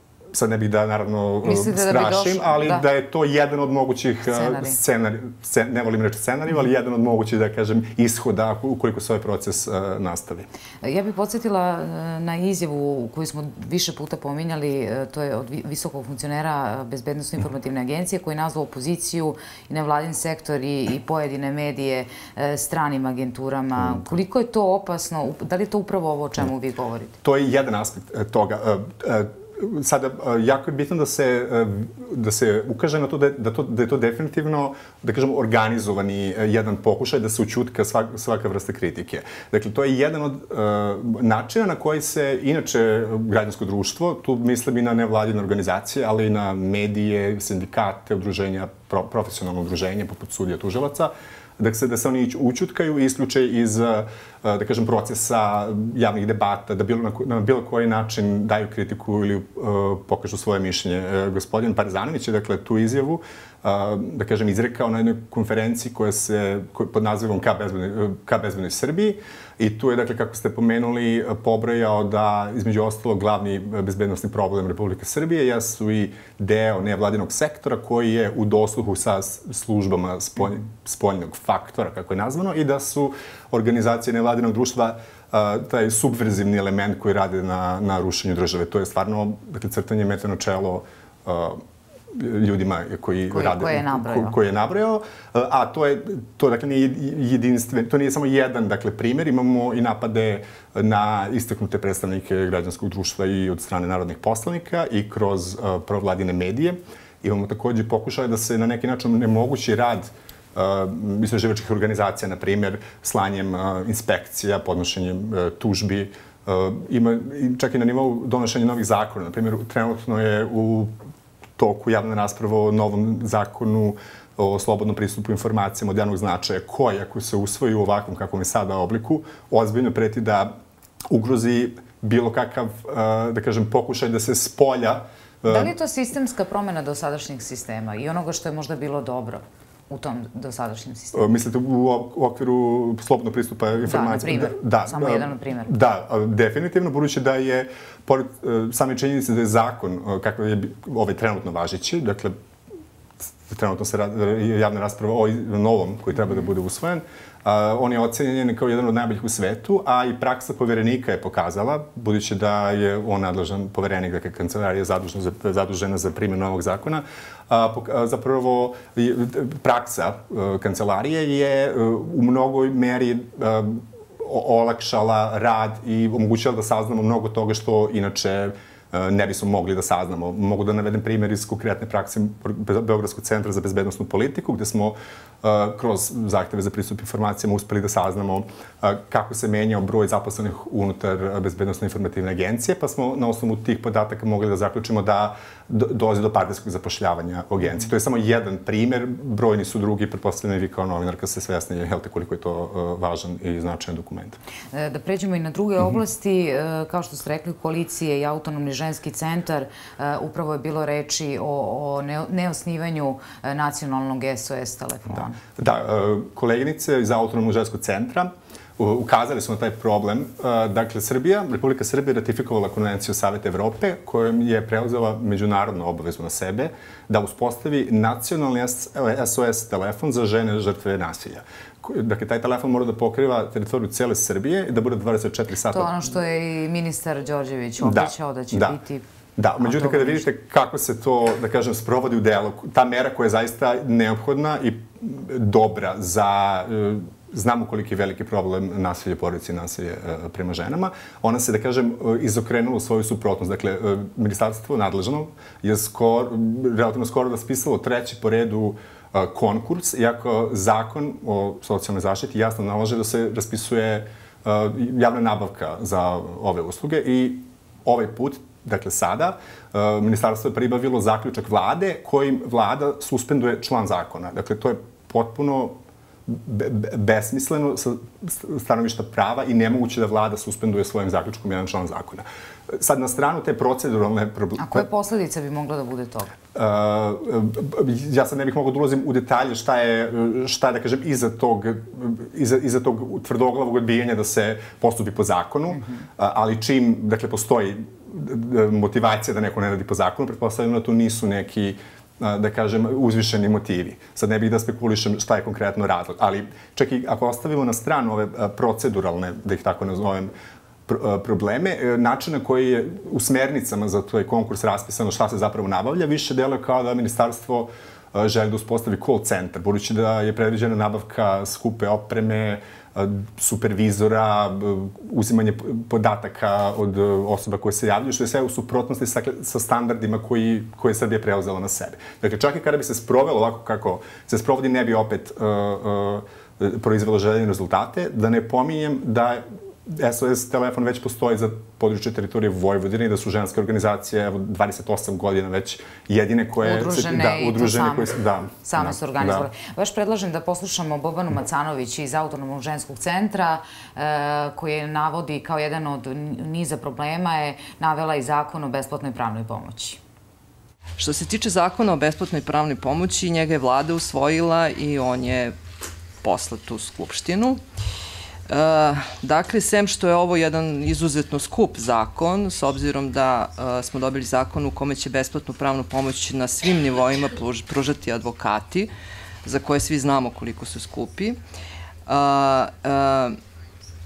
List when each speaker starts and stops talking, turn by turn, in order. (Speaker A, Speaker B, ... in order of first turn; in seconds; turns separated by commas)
Speaker A: 0.3-10.5, Speaker B: 1.4-2.8, Speaker B: 4.3-4.8, Speaker B: 10.8-27.1, Speaker A: 27.2-91.6, Speaker A: 92.1-120.9, Speaker B: 93.3-94.3, Speaker A: 121.6-130.5, Speaker A: 131.1-135.7, Speaker B: 135.5-141.2, Speaker A: 141.1-152.4, Speaker B: 143.8-145.7, Speaker A: 153.5-204.4, Speaker B: 204.7-215.4, Speaker A: 215.1-235.9, Speaker B: 235.7-239.0, Speaker A: 237.8-238.8, Speaker A: 239.4-275.8, Speaker B: 239.6-240.2, Speaker A: 276.3-284.9, Speaker B: 284.6-286.3, Speaker A: 286.6-310.3, Speaker A: 310.9-349.5, Speaker B: 346.6-360.0, Speaker C: 361.0-365.5, Speaker C: 366.2-367.6, Speaker C: 368.5-378.9, Speaker C: 379.4-381.4, Speaker C: 382.1-383.4